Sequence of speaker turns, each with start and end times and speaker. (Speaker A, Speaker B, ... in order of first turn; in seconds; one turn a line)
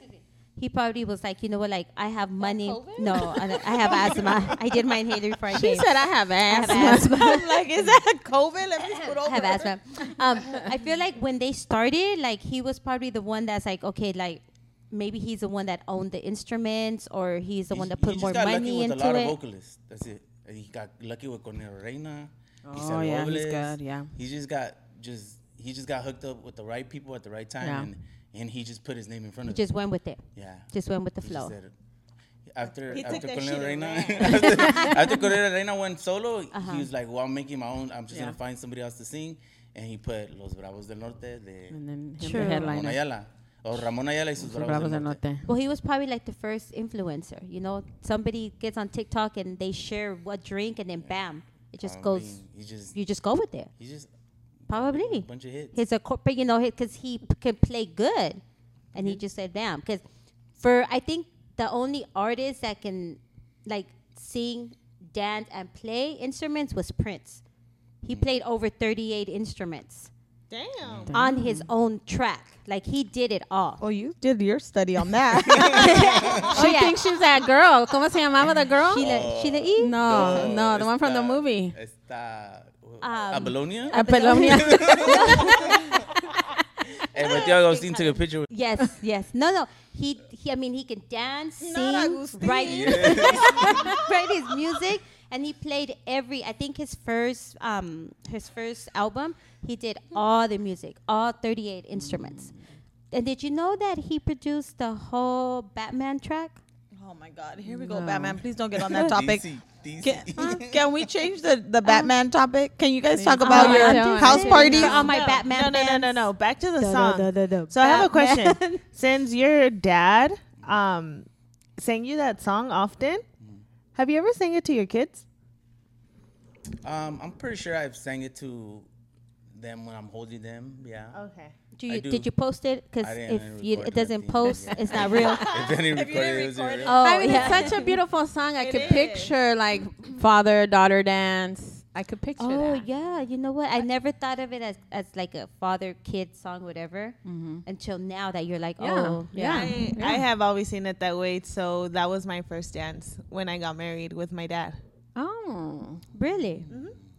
Speaker A: 0.6-7.1
Speaker B: 2.4-3.9
Speaker C: 5.5-7.6
Speaker B: 6.6-9.7
Speaker A: 9.1-19.3
Speaker D: 17.7-29.7
Speaker C: 22.6-24.1
Speaker C: 27.6-27.9
Speaker A: 29.5-31.5
Speaker D: 30.3-30.7
Speaker D: 31.2-31.7
Speaker D: 32.5-41.8
Speaker E: 32.9-34.7
Speaker A: 34.4-35.0
Speaker C: 34.6-34.9
Speaker A: 36.5-36.9
Speaker C: 38.1-38.4
Speaker C: 41.7-43.0
Speaker A: 42.2-42.7
Speaker D: 42.3-45.2
Speaker C: 44.4-45.5
Speaker A: 45.5-52.4
Speaker D: 51.8-53.0
Speaker A: 52.9-53.7
Speaker D: 53.8-54.1
Speaker D: 54.6-55.8
Speaker A: 54.7-58.4
Speaker A: 58.9-60.0
Speaker D: 58.9-59.2
Speaker A: 60.6-67.4
Speaker A: 68.0-70.1
Speaker E: 70.5-71.1
Speaker D: 70.8-71.1
Speaker C: 71.0-71.7
Speaker A: 71.1-73.8
Speaker B: 73.8-76.3
Speaker D: 75.5-76.5
Speaker A: 75.7-77.0
Speaker C: 75.7-79.0
Speaker A: 78.9-80.5
Speaker D: 78.9-86.0
Speaker C: 79.8-81.7
Speaker A: 83.0-86.1
Speaker C: 83.9-85.8
Speaker D: 87.1-88.5
Speaker A: 87.2-102.5
Speaker B: 91.6-94.1
Speaker D: 92.6-93.7
Speaker C: 93.3-93.9
Speaker C: 102.0-102.7
Speaker A: 103.1-106.6
Speaker B: 106.9-109.4
Speaker C: 107.7-108.4
Speaker D: 108.7-111.0
Speaker B: 110.0-115.1
Speaker A: 110.4-110.6
Speaker A: 111.8-112.1
Speaker C: 113.1-115.1
Speaker A: 113.4-118.8
Speaker E: 114.6-121.2
Speaker E: 121.8-123.2
Speaker E: 123.9-125.2
Speaker D: 126.8-128.9
Speaker D: 129.5-131.2
Speaker E: 131.1-131.5
Speaker A: 131.8-135.5
Speaker D: 131.9-132.3
Speaker D: 133.0-137.7
Speaker B: 135.4-137.4
Speaker A: 136.8-137.9
Speaker C: 136.8-142.8
Speaker E: 138.6-139.3
Speaker A: 142.4-149.9
Speaker C: 147.2-147.6
Speaker C: 148.8-150.2
Speaker E: 149.4-154.8
Speaker C: 155.2-156.0
Speaker A: 156.1-156.7
Speaker E: 156.7-156.9